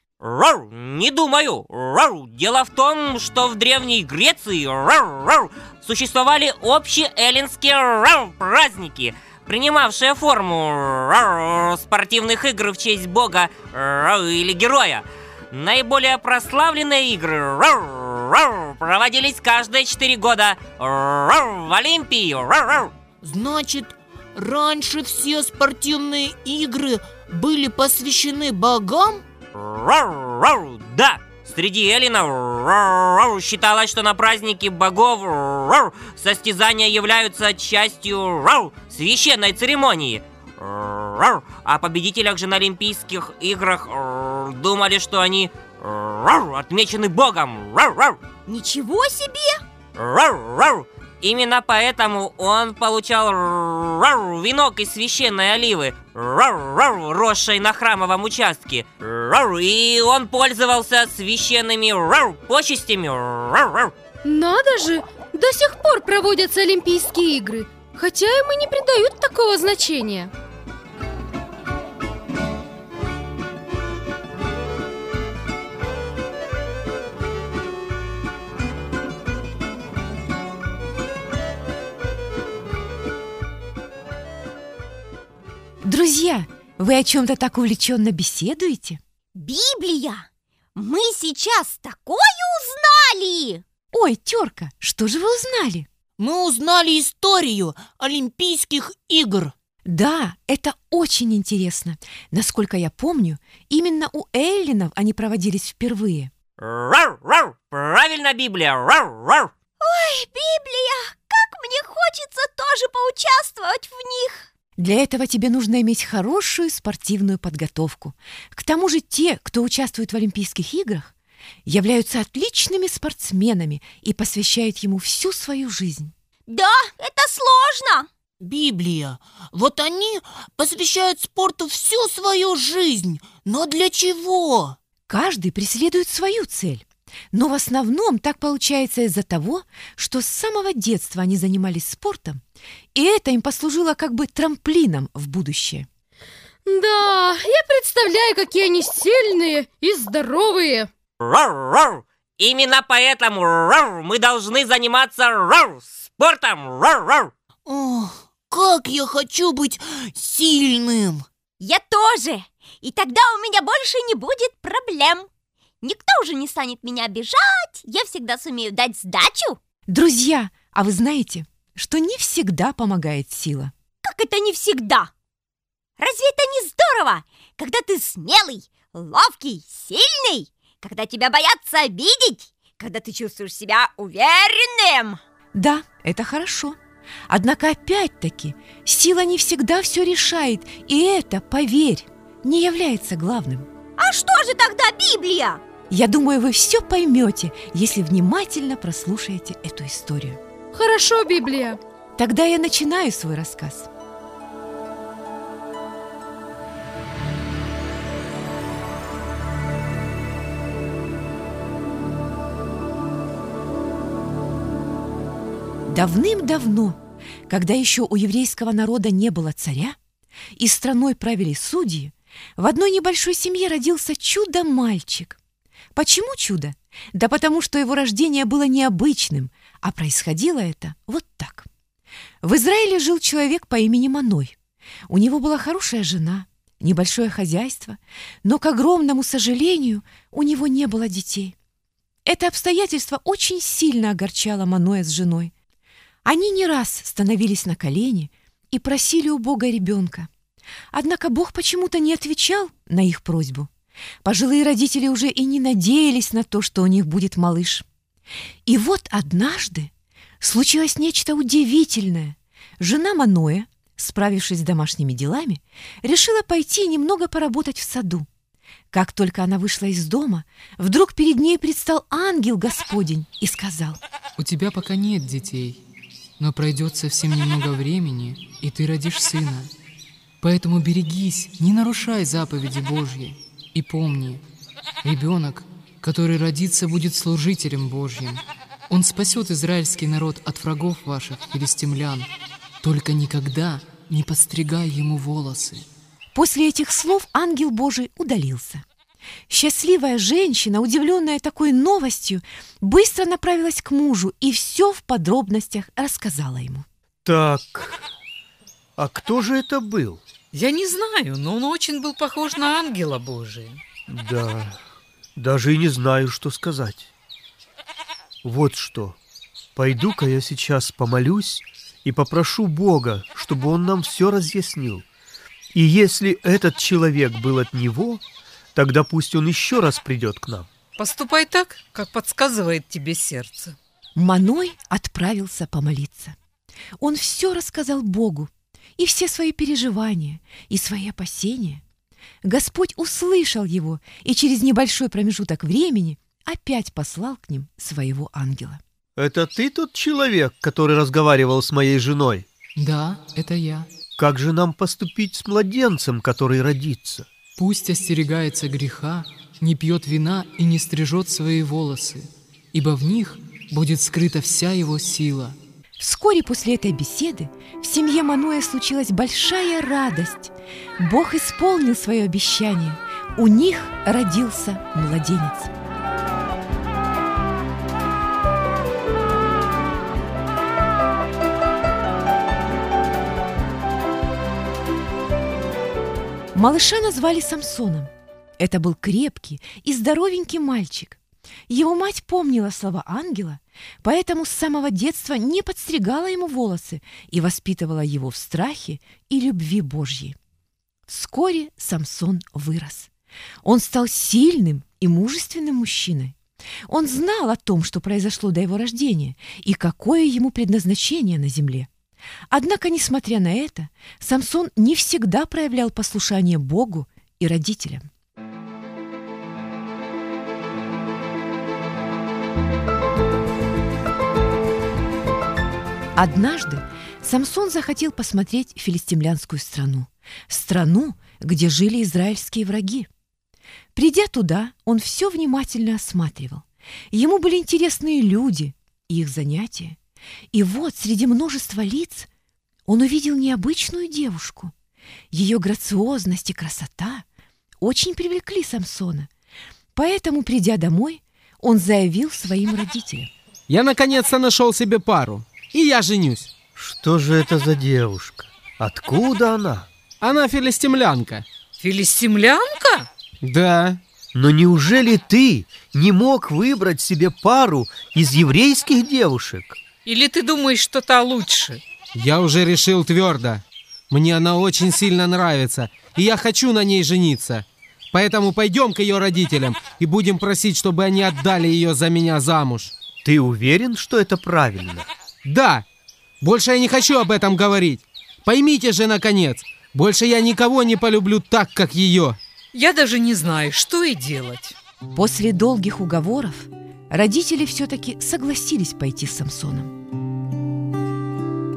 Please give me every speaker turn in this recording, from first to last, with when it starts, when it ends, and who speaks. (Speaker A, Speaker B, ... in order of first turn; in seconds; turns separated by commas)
Speaker A: 0.2-22.9, Speaker B: 23.2-29.2, Speaker A: 29.6-48.2, Speaker C: 48.5-49.6, Speaker A: 50.0-63.9, Speaker D: 64.2-70.3, Speaker E: 85.8-89.0, Speaker C: 89.4-93.6, Speaker E: 93.9-95.9, Speaker B: 96.2-99.5, Speaker E: 99.9-106.3, Speaker A: 106.6-109.5, Speaker C: 109.8-114.5, Speaker E: 114.8-121.1, Speaker E: 121.7-126.1, Speaker C: 126.5-128.1, Speaker B: 128.4-134.8, Speaker E: 135.1-142.4, Speaker E: 142.9-145.9, Speaker D: 146.7-150.9, Speaker A: 151.2-157.3, Speaker B: 157.7-161.3, Speaker C: 161.6-165.3, Speaker C: 165.8-169.6, Speaker E: 169.9-173.7, Speaker C: 174.0-175.1, Speaker C: 176.0-185.2, Speaker E: 185.6-186.8, Speaker E: 187.3-193.7, Speaker C: 194.0-195.6, Speaker E: 195.9-200.4, Speaker D: 200.7-201.8, Speaker E: 202.2-203.9, Speaker E: 215.9-220.0, Speaker E: 220.6-225.4, Speaker E: 225.9-231.7, Speaker E: 232.4-234.6, Speaker E: 235.1-241.6, Speaker E: 242.2-245.5, Speaker E: 246.2-250.3, Speaker E: 250.9-253.7, Speaker E: 254.2-257.9, Speaker E: 258.7-268.3, Speaker E: 268.9-274.0, Speaker F: 274.4-275.8, Speaker F: 276.4-279.7, Speaker F: 280.4-284.4, Speaker F: 285.0-292.3, Speaker F: 292.8-295.9, Speaker E: 296.3-298.8, Speaker E: 299.5-306.9, Speaker G: 307.2-307.9, Speaker G: 309.0-310.2, Speaker H: 310.5-313.8, Speaker G: 314.1-314.8, Speaker G: 315.4-317.1, Speaker G: 318.4-319.2, Speaker G: 319.8-325.1, Speaker G: 325.8-328.2, Speaker G: 328.8-330.7, Speaker H: 331.0-333.8, Speaker E: 334.2-336.4, Speaker E: 337.0-341.8, Speaker E: 342.4-348.8, Speaker G: 349.2-352.5, Speaker F: 352.8-353.9, Speaker G: 354.2-357.3, Speaker F: 357.6-365.6, Speaker E: 366.0-375.7, Speaker E: 386.5-400.4, Speaker E: 401.1-403.1, Speaker E: 403.6-406.4, Speaker E: 406.9-411.9, Speaker E: 412.5-418.1, Speaker E: 426.2-433.1, Speaker E: 433.9-440.0, Speaker E: 440.5-442.3, Speaker E: 442.9-444.7, Speaker E: 445.3-447.3, Speaker E: 447.8-449.3, Speaker E: 450.0-453.3, Speaker I: 453.7-456.5, Speaker G: 456.8-459.9, Speaker I: 460.2-461.4, Speaker H: 461.8-463.1, Speaker I: 463.4-464.0, Speaker G: 464.3-469.8, Speaker H: 470.1-471.8, Speaker I: 472.1-482.9, Speaker G: 483.2-485.1, Speaker I: 485.4-485.8, Speaker I: 486.4-492.4, Speaker H: 492.7-494.8, Speaker E: 495.1-499.9